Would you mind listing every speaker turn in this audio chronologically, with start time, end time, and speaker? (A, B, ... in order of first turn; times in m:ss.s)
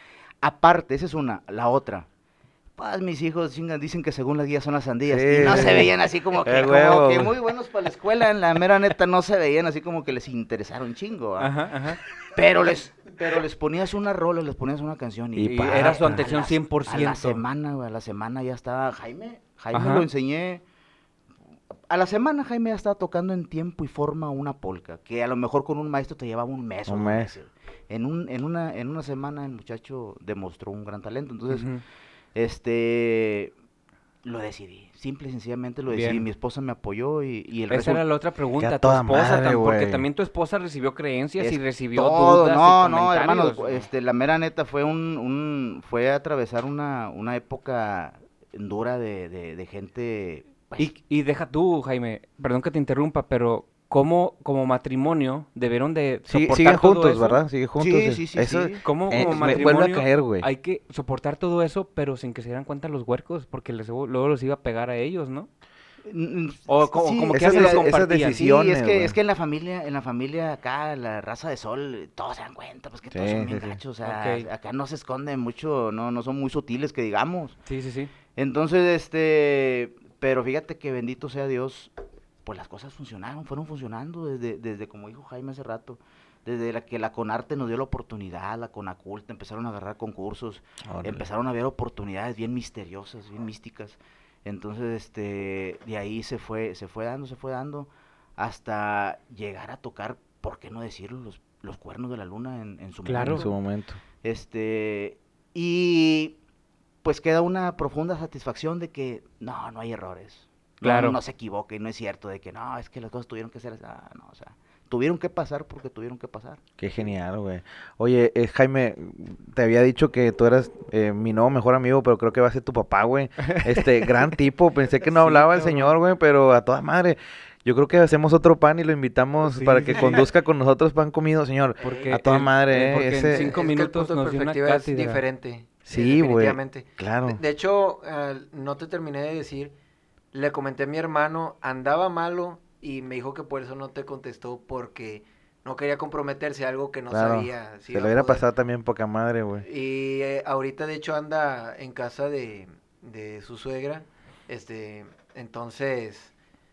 0:00.4-0:02.1 A
0:02.8-0:11.5 A
0:05.1-0:07.3 B
0:05.4-0:05.8 C
0:11.4-0:12.0 C
0:12.2-0:20.6 A
0:15.4-0:17.4 C
0:19.7-0:20.1 C
0:21.9-0:31.7 A
0:26.9-0:27.3 B
0:31.5-0:31.8 C
0:32.4-0:33.5 A
0:34.2-0:38.0 A
0:35.9-0:36.3 C
0:37.7-0:43.9 C
0:38.6-0:40.0 B
0:41.4-0:50.9 A
0:50.8-0:57.4 C
0:56.3-1:00.5 B
0:57.8-0:59.7 A
0:58.8-1:05.5 C
1:06.1-1:17.6 A
1:06.7-1:08.4 C
1:07.3-1:09.2 B
1:13.1-1:13.8 B
1:14.0-1:14.5 C
1:17.7-1:18.1 C
1:18.4-1:21.9 A
1:22.4-1:43.5 A
1:30.8-1:31.3 B
1:43.1-1:43.5 C
1:43.3-1:44.0 B
1:44.2-1:46.4 A
1:47.0-1:56.6 A
1:50.8-1:51.2 C
1:56.8-2:13.6 B
2:03.4-2:03.9 C
2:05.0-2:05.9 C
2:09.4-2:10.2 C
2:09.9-2:10.2 D
2:11.8-2:12.2 D
2:11.8-2:15.2 C
2:13.3-2:19.7 D
2:15.9-2:17.4 B
2:20.3-2:28.4 D
2:27.1-2:29.7 B
2:29.6-2:36.3 D